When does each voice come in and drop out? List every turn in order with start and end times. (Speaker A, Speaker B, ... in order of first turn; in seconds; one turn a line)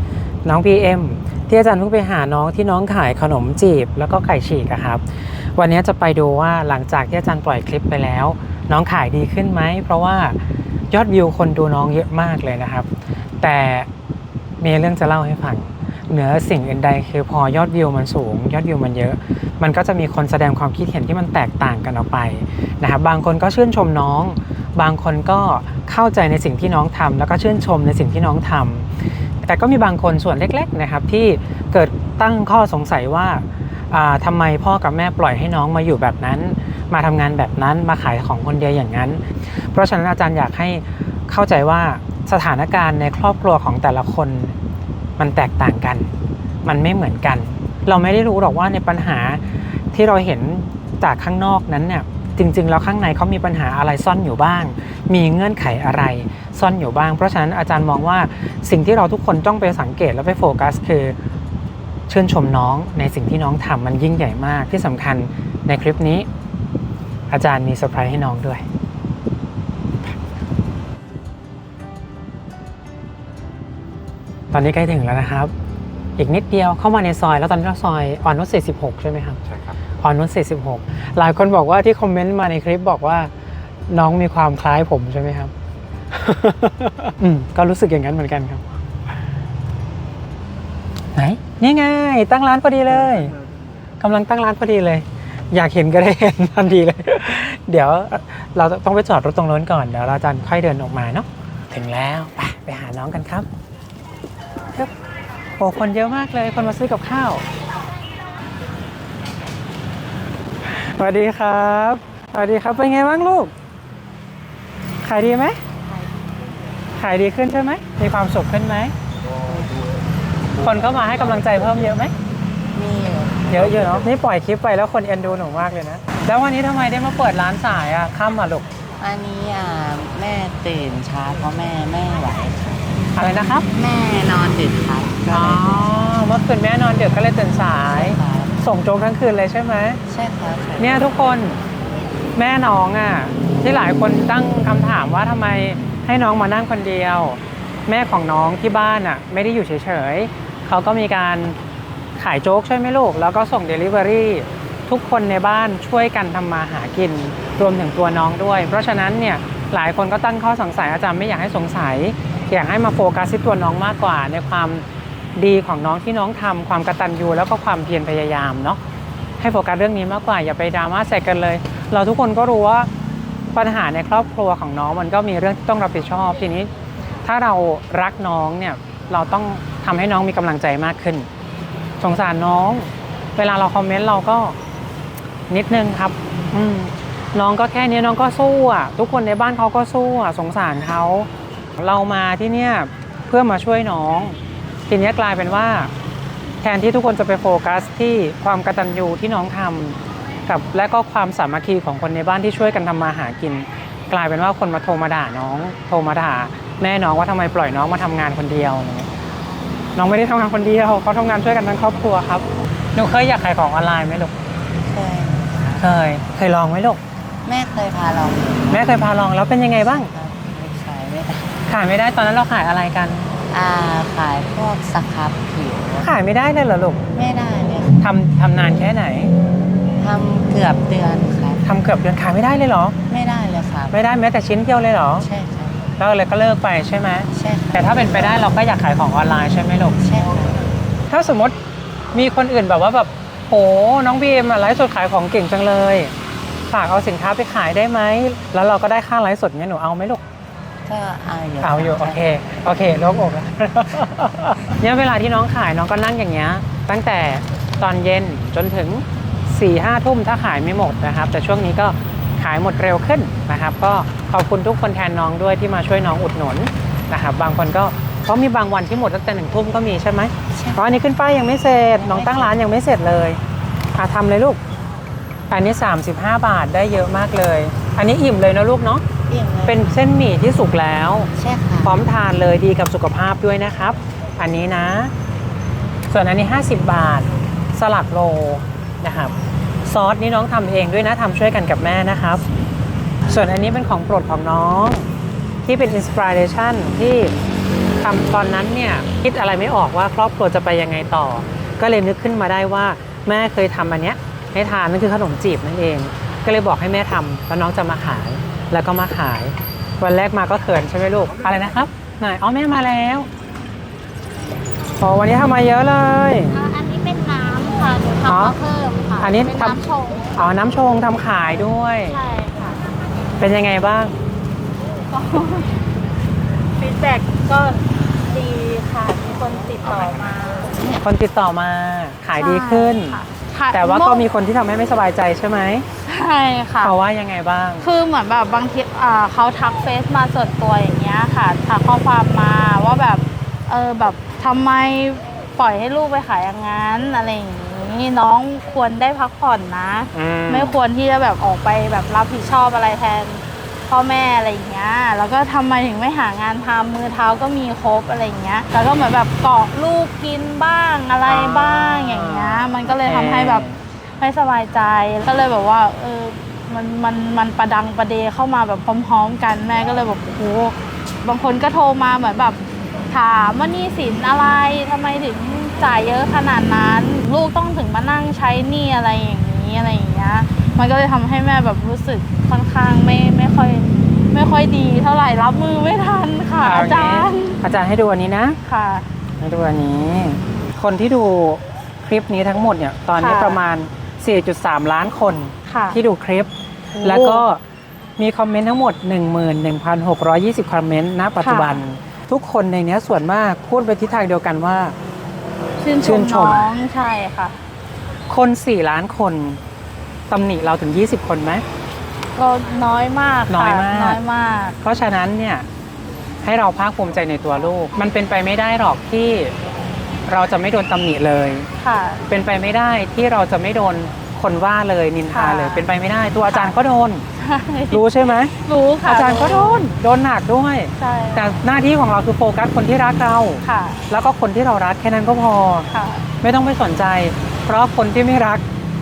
Speaker A: 0.5-10.4
Speaker A: 10.9-12.9
Speaker A: 13.4-13.9
Speaker A: 14.6-44.5
Speaker A: 45.2-46.1
Speaker A: 46.6-61.2
Speaker A: 62.1-66.3
Speaker A: 67.3-68.6
Speaker A: 74.5-75.5
Speaker A: 76.2-79.4
Speaker A: 80.0-83.3
Speaker A: 83.9-85.5
Speaker A: 86.1-88.6
Speaker A: 91.2-93.3
Speaker A: 94.0-103.5
Speaker A: 105.6-107.4
Speaker A: 110.7-113.5
Speaker A: 115.0-115.6
Speaker A: 117.0-118.9
Speaker B: 119.5-119.8
Speaker A: 120.6-122.1
Speaker B: 122.7-123.5
Speaker A: 123.5-128.7
Speaker B: 129.0-132.9
Speaker A: 133.2-133.7
Speaker B: 133.7-135.9
Speaker A: 135.3-140.0
Speaker B: 137.9-138.6
Speaker B: 140.1-141.1
Speaker A: 140.8-141.6
Speaker A: 142.4-151.6
Speaker A: 152.2-164.8
Speaker A: 165.4-168.8
Speaker A: 169.4-172.9
Speaker A: 173.5-176.7
Speaker A: 177.2-181.3
Speaker A: 182.0-184.6
Speaker A: 185.5-195.9
Speaker A: 196.6-209.1
Speaker A: 210.0-214.3
Speaker B: 214.8-215.9
Speaker A: 215.8-217.0
Speaker B: 217.4-219.0
Speaker A: 218.7-220.1
Speaker B: 220.1-221.6
Speaker A: 221.7-223.3
Speaker B: 223.5-226.1
Speaker A: 226.0-227.0
Speaker B: 227.1-228.0
Speaker A: 228.0-229.3
Speaker B: 230.0-231.6
Speaker A: 231.6-233.0
Speaker B: 233.1-234.0
Speaker A: 233.9-235.3
Speaker B: 235.2-235.9
Speaker A: 236.0-240.0
Speaker B: 237.3-238.2
Speaker B: 240.0-240.7
Speaker A: 241.1-241.6
Speaker A: 242.1-246.1
Speaker A: 246.7-250.2
Speaker B: 250.9-252.3
Speaker A: 251.6-273.4
Speaker B: 270.5-270.9
Speaker B: 271.9-272.6
Speaker A: 274.0-274.6
Speaker A: 275.5-279.1
Speaker B: 279.3-280.0
Speaker A: 279.7-281.3
Speaker B: 281.4-282.0
Speaker A: 281.8-285.1
Speaker A: 286.1-289.4
Speaker A: 289.9-292.4
Speaker A: 293.3-295.1
Speaker A: 295.7-297.3
Speaker A: 298.0-313.3
Speaker A: 315.0-316.6
Speaker C: 316.5-320.4
Speaker A: 318.2-318.6
Speaker A: 319.2-319.8
Speaker A: 320.4-322.2
Speaker C: 322.1-322.8
Speaker A: 323.4-324.1
Speaker C: 325.1-325.8
Speaker C: 326.8-330.9
Speaker A: 330.9-333.2
Speaker C: 332.4-334.3
Speaker A: 333.7-335.9
Speaker C: 336.1-336.9
Speaker A: 336.8-337.9
Speaker C: 337.8-363.6
Speaker A: 350.1-350.8
Speaker A: 361.2-363.8
Speaker C: 364.2-387.6
Speaker A: 386.6-388.6
Speaker C: 388.6-389.1
Speaker A: 389.4-396.5
Speaker C: 393.2-393.6
Speaker C: 395.7-396.0
Speaker C: 396.9-397.4
Speaker A: 397.0-397.6
Speaker A: 398.2-405.0
Speaker C: 401.4-401.8
Speaker C: 405.8-407.6
Speaker A: 406.0-406.7
Speaker A: 408.3-409.6
Speaker A: 410.3-411.6
Speaker C: 412.4-414.8
Speaker A: 413.5-414.2
Speaker A: 414.8-415.7
Speaker A: 416.4-419.5
Speaker A: 420.3-421.7
Speaker C: 421.8-422.2
Speaker A: 422.3-427.2
Speaker C: 425.3-425.9
Speaker C: 426.5-426.7
Speaker C: 427.4-428.1
Speaker A: 427.9-428.5
Speaker C: 428.6-429.9
Speaker A: 429.1-435.9
Speaker C: 431.0-431.5
Speaker C: 433.6-434.1
Speaker C: 435.9-436.3
Speaker A: 436.4-438.6